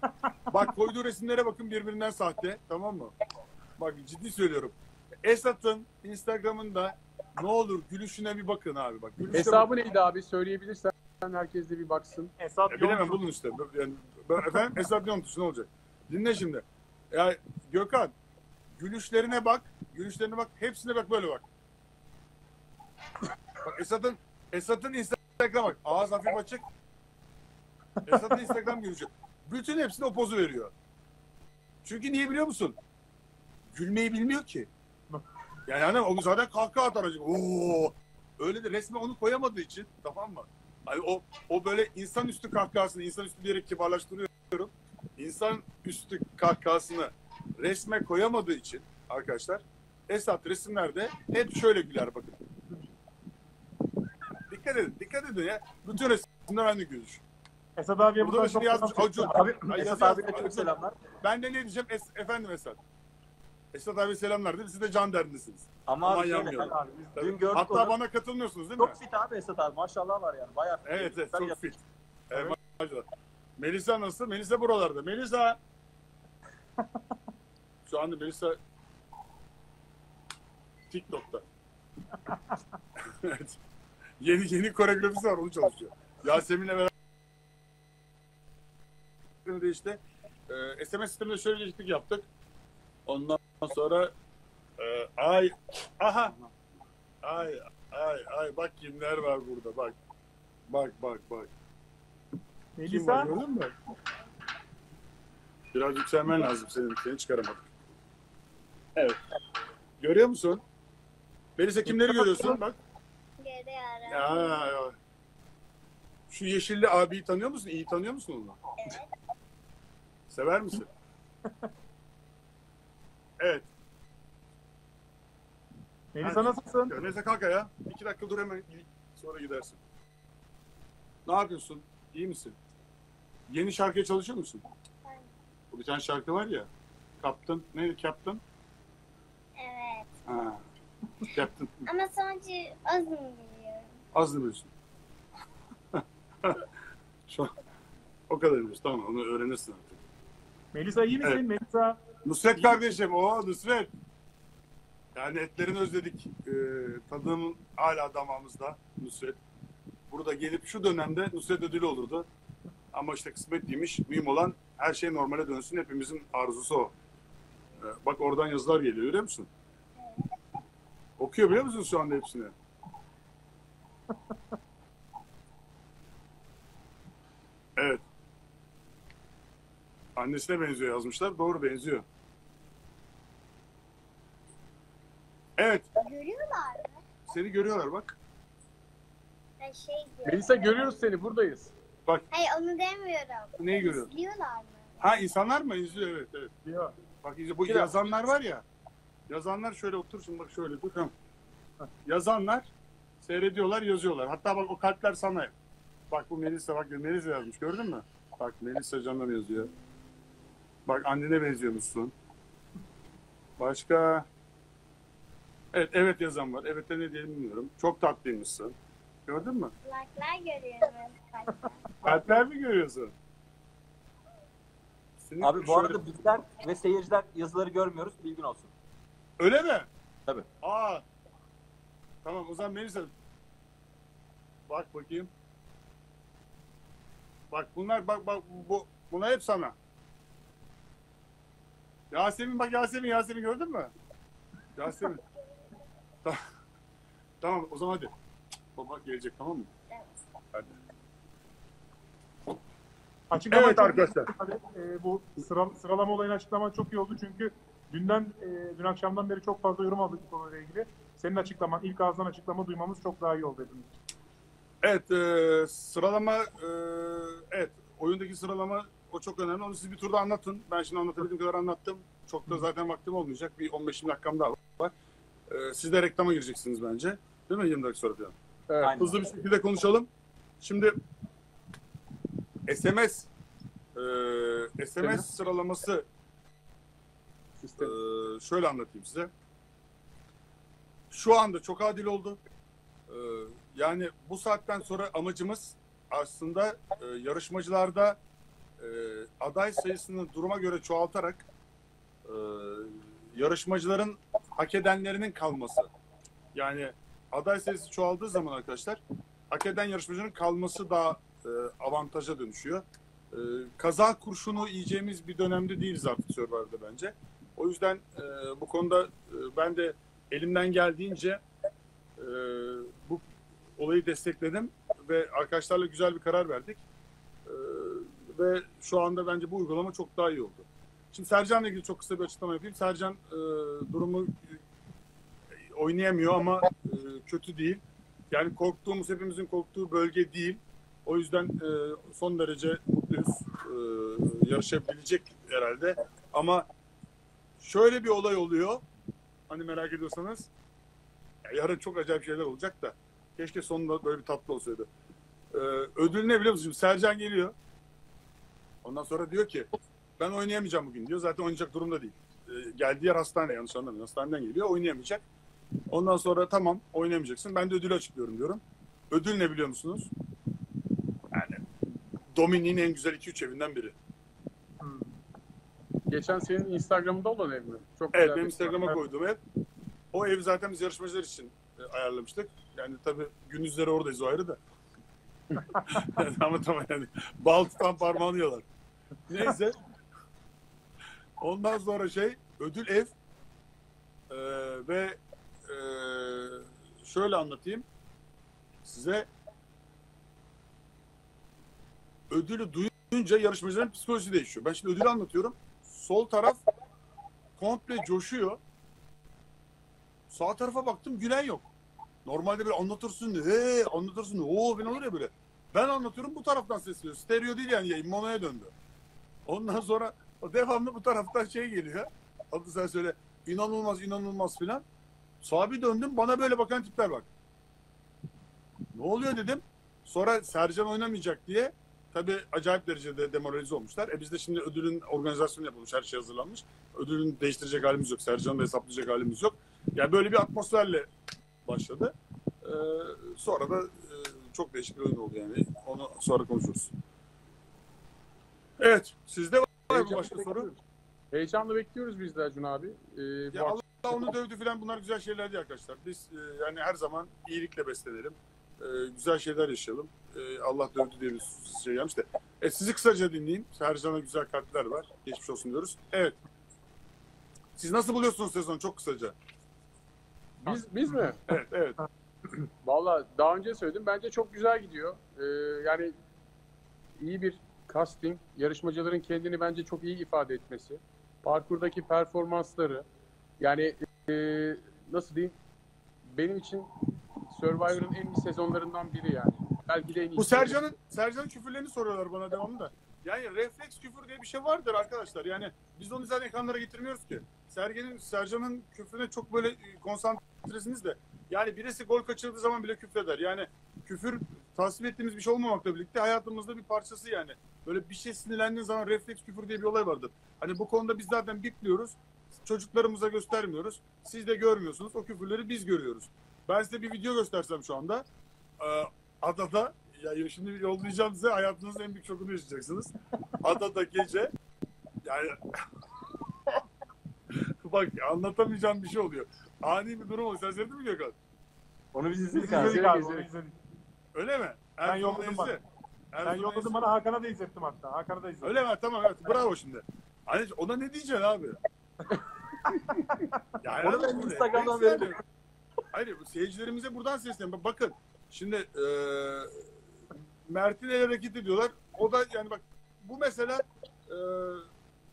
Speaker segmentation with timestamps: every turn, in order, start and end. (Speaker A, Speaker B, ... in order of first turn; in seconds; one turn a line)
Speaker A: 0.5-3.1
Speaker A: 3.8-9.7
Speaker B: 9.3-12.3
Speaker C: 12.4-13.2
Speaker A: 12.7-18.1
Speaker A: 18.8-21.4
Speaker A: 23.6-26.6
Speaker A: 28.0-30.7
Speaker A: 31.8-32.8
Speaker A: 33.7-34.7
Speaker A: 35.7-52.4
Speaker A: 54.5-57.2
Speaker C: 57.8-59.8
Speaker A: 58.2-60.7
Speaker D: 59.3-61.0
Speaker A: 61.2-62.8
Speaker A: 63.7-69.0
Speaker D: 65.9-68.0
Speaker C: 66.4-67.2
Speaker D: 68.8-71.6
Speaker A: 70.8-73.0
Speaker A: 73.6-75.6
Speaker A: 77.8-78.6
Speaker A: 80.9-81.4
Speaker A: 83.2-83.6
Speaker A: 84.2-86.9
Speaker A: 89.4-92.3
Speaker A: 93.0-94.1
Speaker A: 94.8-96.3
Speaker A: 97.2-100.0
Speaker A: 100.7-101.5
Speaker C: 102.8-103.3
Speaker A: 102.9-103.7
Speaker A: 105.7-107.7
Speaker A: 110.0-110.6
Speaker A: 111.6-112.8
Speaker C: 111.8-112.6
Speaker E: 113.4-114.7
Speaker A: 114.1-114.9
Speaker A: 116.3-118.6
Speaker E: 118.8-119.1
Speaker A: 120.3-120.9
Speaker A: 123.4-123.7
Speaker C: 126.1-126.9
Speaker A: 126.2-129.8
Speaker A: 131.2-132.6
Speaker A: 133.5-134.6
Speaker E: 135.0-135.3
Speaker A: 135.7-136.7
Speaker A: 137.2-138.4
Speaker E: 139.6-140.1
Speaker A: 140.3-140.6
Speaker A: 141.2-141.9
Speaker E: 141.8-143.9
Speaker A: 144.1-144.7
Speaker A: 145.9-146.6
Speaker A: 148.3-150.0
Speaker C: 150.7-152.0
Speaker A: 152.2-153.9
Speaker A: 155.1-159.4
Speaker A: 160.1-162.3
Speaker A: 162.9-166.9
Speaker A: 167.8-169.5
Speaker E: 170.0-170.3
Speaker A: 171.2-172.5
Speaker A: 177.8-178.0
Speaker A: 180.2-182.0
Speaker A: 185.6-185.9
Speaker E: 185.9-187.0
Speaker A: 187.3-188.2
Speaker E: 189.6-190.7
Speaker B: 190.2-191.7
Speaker E: 192.3-195.0
Speaker A: 193.6-194.1
Speaker A: 195.0-196.5
Speaker C: 196.6-196.9
Speaker A: 197.2-198.6
Speaker A: 199.3-201.1
Speaker A: 202.1-202.7
Speaker A: 203.2-205.5
Speaker A: 206.1-209.7
Speaker A: 210.8-212.1
Speaker A: 213.6-214.2
Speaker A: 215.7-218.7
Speaker A: 219.2-219.7
Speaker E: 219.8-221.9
Speaker A: 222.0-223.1
Speaker A: 225.2-226.0
Speaker D: 225.4-228.7
Speaker A: 229.4-229.9
Speaker A: 230.6-231.0
Speaker A: 232.2-233.1
Speaker A: 234.7-235.3
Speaker A: 237.5-239.7
Speaker A: 242.1-243.9
Speaker A: 244.8-245.2
Speaker A: 247.4-248.1
Speaker A: 248.8-249.7
Speaker C: 253.3-263.9
Speaker A: 253.5-254.3
Speaker A: 264.8-274.9
Speaker A: 275.5-278.3
Speaker B: 278.7-279.0
Speaker D: 278.8-279.2
Speaker A: 278.9-280.1
Speaker A: 280.6-280.9
Speaker A: 282.7-283.3
Speaker A: 283.9-286.1
Speaker B: 285.0-285.3
Speaker B: 287.6-287.9
Speaker A: 287.8-289.3
Speaker A: 291.1-292.4
Speaker A: 293.1-298.2
Speaker A: 298.8-301.5
Speaker A: 302.2-305.9
Speaker A: 306.5-321.4
Speaker A: 322.2-323.2
Speaker A: 323.8-326.8
Speaker A: 327.4-334.6
Speaker A: 335.7-346.7
Speaker A: 347.6-348.8
Speaker A: 349.5-350.5
Speaker A: 351.4-354.9
Speaker A: 355.5-357.5
Speaker A: 358.8-359.7
Speaker A: 360.2-365.2
Speaker A: 365.9-370.1
Speaker A: 371.3-371.6
Speaker A: 372.3-373.9
Speaker C: 374.8-375.1
Speaker B: 376.1-378.9
Speaker A: 378.1-379.4
Speaker A: 380.1-384.6
Speaker A: 385.8-388.6
Speaker A: 389.3-389.8
Speaker A: 391.4-393.1
Speaker A: 394.3-397.8
Speaker A: 398.8-399.3
Speaker A: 402.3-406.6
Speaker A: 407.6-408.6
Speaker A: 410.3-411.7
Speaker A: 412.2-418.7
Speaker A: 419.4-424.8
Speaker A: 425.4-427.3
Speaker A: 428.9-441.1
Speaker A: 441.6-446.9
Speaker A: 448.8-450.7
Speaker B: 449.9-450.8
Speaker B: 451.3-453.9
Speaker A: 453.5-466.4
Speaker A: 467.8-469.4
Speaker B: 470.6-471.4
Speaker A: 471.5-472.0
Speaker B: 472.8-476.1
Speaker B: 477.2-483.0
Speaker B: 483.6-485.5
Speaker B: 486.2-486.9
Speaker B: 487.5-490.9
Speaker A: 490.4-518.2
Speaker A: 518.8-524.5
Speaker A: 525.2-525.6
Speaker A: 527.5-531.4
Speaker D: 532.1-533.5
Speaker C: 532.5-533.7
Speaker B: 532.8-533.2
Speaker A: 534.3-537.0
Speaker C: 535.0-535.8
Speaker C: 536.4-538.8
Speaker A: 538.6-541.8
Speaker A: 543.8-545.4
Speaker D: 543.9-545.4
Speaker A: 546.1-549.8
Speaker A: 550.7-554.9